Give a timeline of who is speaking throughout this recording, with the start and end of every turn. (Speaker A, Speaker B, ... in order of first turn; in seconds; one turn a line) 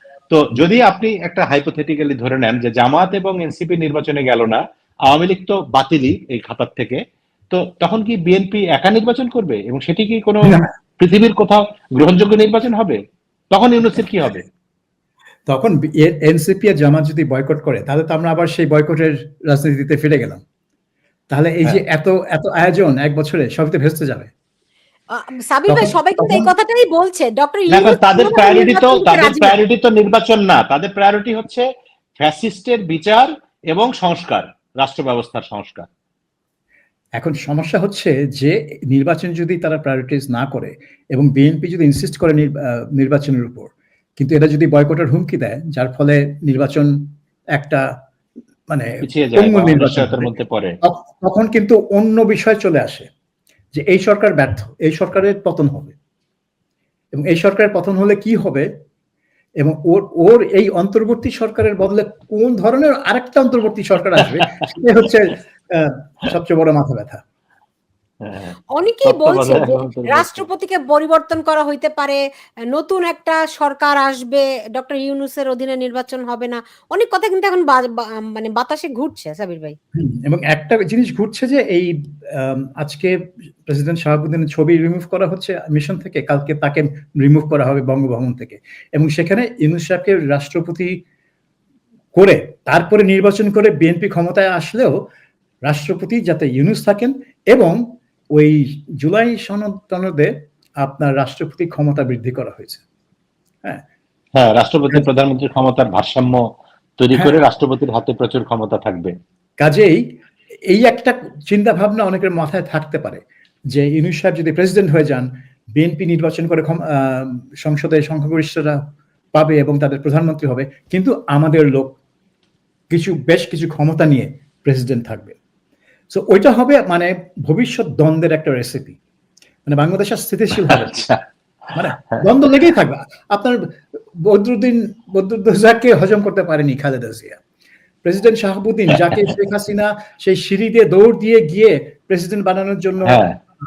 Speaker A: 0.3-7.0
Speaker A: 7.5-13.0
Speaker A: 13.5-14.5
Speaker B: 15.5-20.4
Speaker B: 21.3-24.3
Speaker C: 25.1-29.6
Speaker B: 25.7-26.5
Speaker A: 27.7-31.6
Speaker A: 32.2-35.9
Speaker B: 37.2-47.0
Speaker B: 47.5-47.8
Speaker B: 48.7-50.3
Speaker A: 49.0-50.7
Speaker B: 50.8-53.1
Speaker B: 53.7-56.0
Speaker B: 57.1-58.7
Speaker B: 59.6-67.2
Speaker A: 68.2-70.5
Speaker C: 68.8-72.2
Speaker C: 72.7-79.8
Speaker B: 80.0-91.0
Speaker B: 92.1-95.0
Speaker B: 95.7-97.8
Speaker B: 98.3-102.8
Speaker A: 104.3-106.4
Speaker A: 107.0-109.1
Speaker B: 109.6-110.0
Speaker B: 110.7-118.8
Speaker B: 119.3-122.0
Speaker B: 122.9-125.4
Speaker B: 126.1-129.0
Speaker B: 129.7-131.1
Speaker A: 130.7-131.2
Speaker B: 131.7-137.4
Speaker B: 138.1-143.2
Speaker A: 139.0-139.3
Speaker A: 143.1-143.3